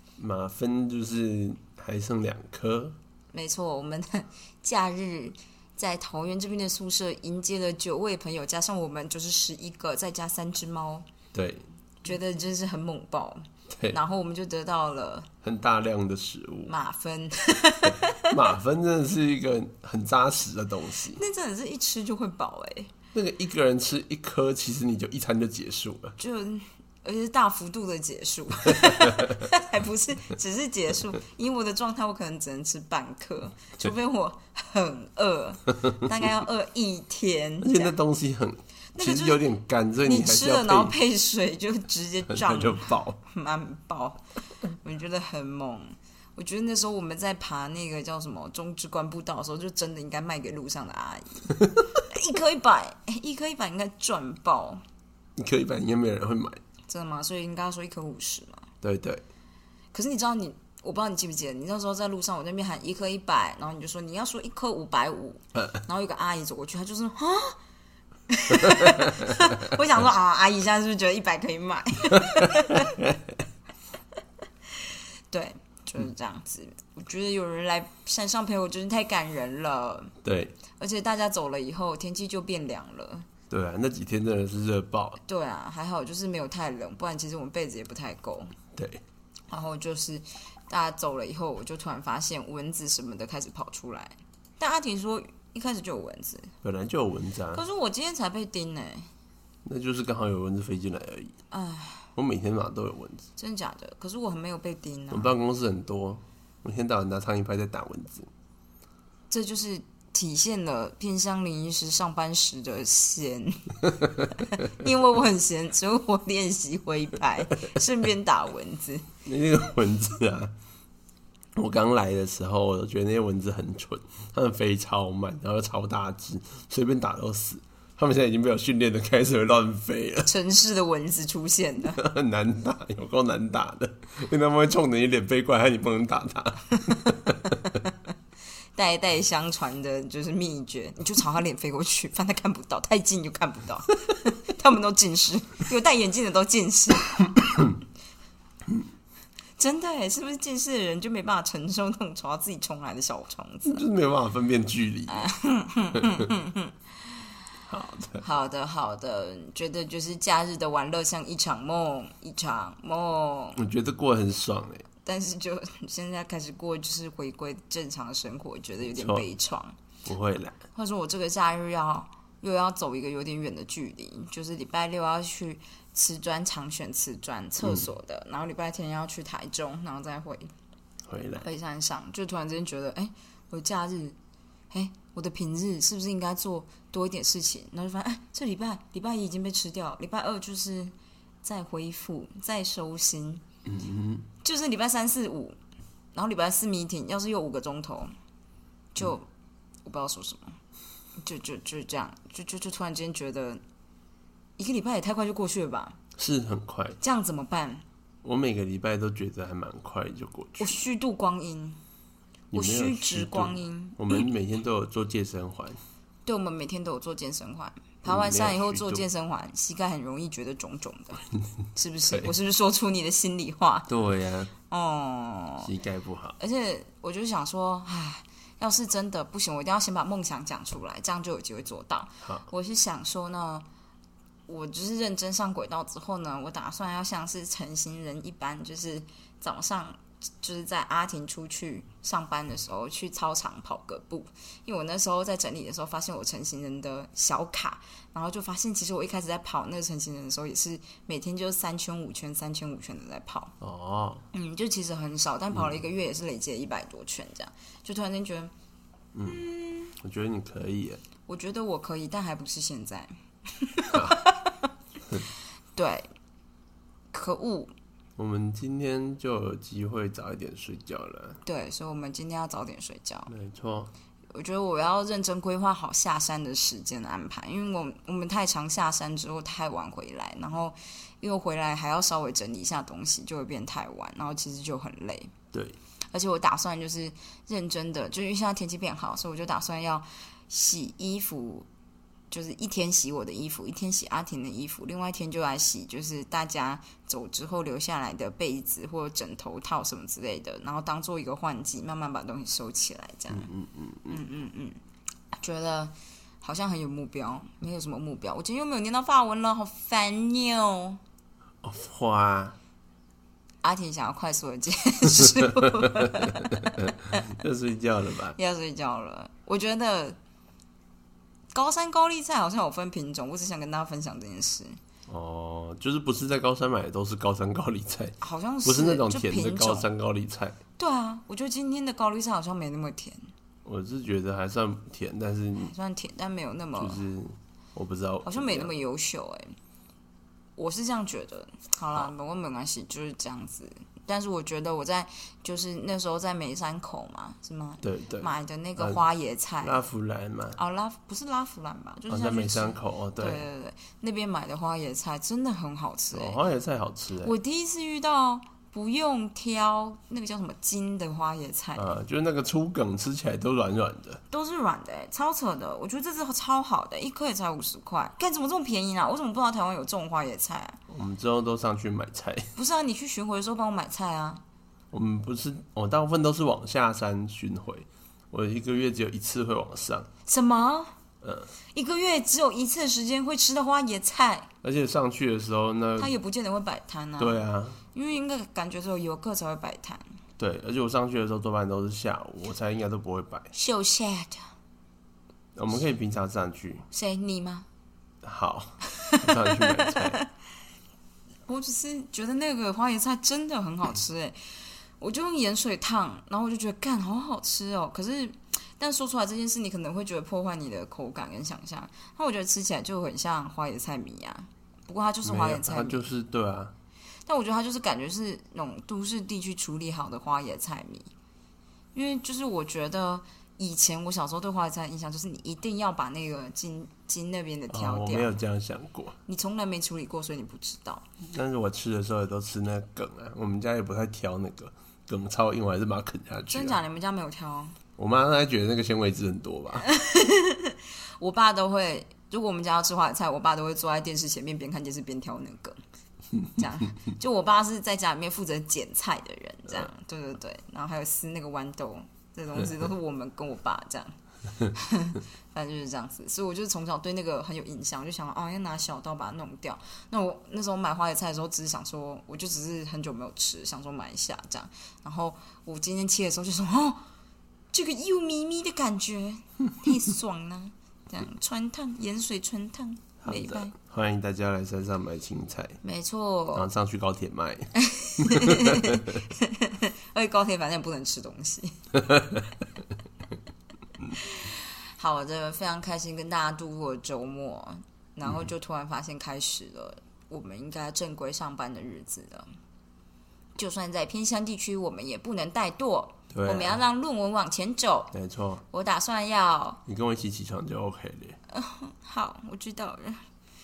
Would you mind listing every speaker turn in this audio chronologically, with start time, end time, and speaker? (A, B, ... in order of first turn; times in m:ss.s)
0:00.2-0:03.0 A
0:03.3-0:11.0 B
0:11.3-0:11.6 A
0:12.0-0:15.3 B
0:15.4-0:16.7 A
0:16.7-0:18.4 B
0:18.3-0:21.2 A
0:21.1-0:22.9 B
0:23.1-0:26.2 A
0:26.2-0:37.9 B
0:37.6-0:40.9 A
0:38.9-0:39.4 B
0:40.0-0:54.8 B
0:42.3-0:43.2 A
0:55.4-0:56.6 A
0:56.9-0:58.7 B
0:58.8-0:59.2 A
0:59.9-1:07.6 B
1:08.3-1:13.0 B
1:12.8-1:13.2 A
1:15.3-1:20.1 B
1:20.2-1:20.5 A
1:20.8-1:23.3 B
1:23.5-1:25.2 A
1:25.2-1:28.5 B
1:28.7-1:29.0 A
1:29.5-1:36.5 B
1:36.6-1:37.6 A
1:37.5-1:39.1 B
1:39.6-1:41.3 A
1:41.5-1:42.1 B
1:42.2-1:43.3 A
1:43.4-1:45.3 B
1:45.1-1:48.3 A
1:49.3-1:59.1 B
1:59.2-2:00.5 A
2:01.6-2:10.3 A
2:10.2-2:12.0 B
2:11.9-2:17.6 A
2:18.7-2:27.4 B
2:29.6-2:33.8 B
2:33.6-2:35.3 A
2:35.1-2:36.8 B
2:37.7-2:38.2 A
2:38.2-2:43.6 B
2:43.6-2:44.8 A
2:45.0-2:49.8 B
2:48.8-2:49.2 A
2:50.0-2:50.6 A
2:50.7-3:00.5 B
2:57.6-2:57.9 A
3:01.1-3:01.4 A
3:01.4-3:04.2 B
3:04.7-3:13.4 B
3:13.6-3:14.2 A
3:14.4-3:15.6 B
3:16.1-3:18.1 B
3:18.9-3:19.3 B
3:19.8-3:20.6 B
3:21.2-3:23.6 B
3:24.6-3:26.0 B
3:26.2-3:27.0 A
3:27.0-3:27.8 B
3:28.2-3:30.7 A
3:30.6-3:31.8 B
3:32.5-3:35.8 A
3:32.5-3:34.2 B
3:36.2-3:43.9 B
3:38.0-3:39.0 A
3:43.9-3:44.5 A
3:44.7-3:45.7 B
3:45.6-3:46.4 A
3:46.4-3:53.6 B
3:54.5-4:13.5 B
4:13.6-4:14.2 A
4:14.3-4:18.5 B
4:19.1-4:19.4 A
4:19.2-4:19.9 B
4:19.9-4:21.0 A
4:21.3-4:24.6 B
4:23.9-4:24.2 A
4:25.8-4:26.1 B
4:27.1-4:27.7 B
4:28.2-4:31.4 A
4:31.4-4:33.3 B
4:33.3-4:33.9 A
4:34.3-4:45.3 B
4:46.1-4:51.7 B
4:52.3-5:03.5 B
5:03.3-5:04.2 A
5:04.1-5:04.8 B
5:05.3-5:11.0 B
5:11.6-5:12.6 A
5:13.6-5:17.2 B
5:15.2-5:16.6 A
5:17.3-5:18.4 A
5:18.3-5:20.2 B
5:21.5-5:24.8 B
5:25.1-5:30.6 A
5:28.2-5:29.9 B
5:30.8-5:33.3 B
5:33.6-5:35.7 A
5:35.6-5:37.0 B
5:36.8-5:38.7 A
5:38.2-5:39.6 B
5:40.6-5:49.8 B
5:47.8-5:49.0 A
5:49.6-5:50.6 A
5:50.6-5:56.4 B
5:52.1-5:53.4 A
5:56.1-5:57.3 A
5:57.2-6:01.9 B
6:01.8-6:04.2 A
6:04.3-6:10.8 B
6:10.9-6:12.5 A
6:12.5-6:14.4 B
6:14.9-6:20.1 A
6:20.2-6:20.9 B
6:21.2-6:21.5 A
6:21.7-6:24.5 B
6:24.6-6:26.1 A
6:26.0-6:30.0 B
6:27.2-6:27.8 A
6:30.4-6:33.5 A
6:33.5-6:34.5 B
6:35.6-6:36.9 A
6:36.9-6:37.6 B
6:38.2-6:40.2 A
6:39.1-6:40.2 B
6:41.4-6:56.1 B
6:55.2-6:56.7 A
6:57.2-7:01.1 B
7:01.9-7:08.3 B
7:07.7-7:09.2 A
7:09.3-7:11.0 B
7:11.2-7:16.8 A
7:16.5-7:17.8 B
7:18.0-7:19.9 A
7:19.8-7:25.8 B
7:26.5-7:47.0 B
7:47.7-7:53.7 B
7:53.2-7:55.8 A
7:55.8-7:56.7 B
7:56.5-7:59.1 A
7:57.8-8:01.7 B
8:04.1-8:12.5 B
8:13.6-8:18.1 B
8:16.3-8:16.8 A
8:18.1-8:18.6 A
8:18.7-8:19.8 B
8:19.8-8:21.4 A
8:21.5-8:23.2 B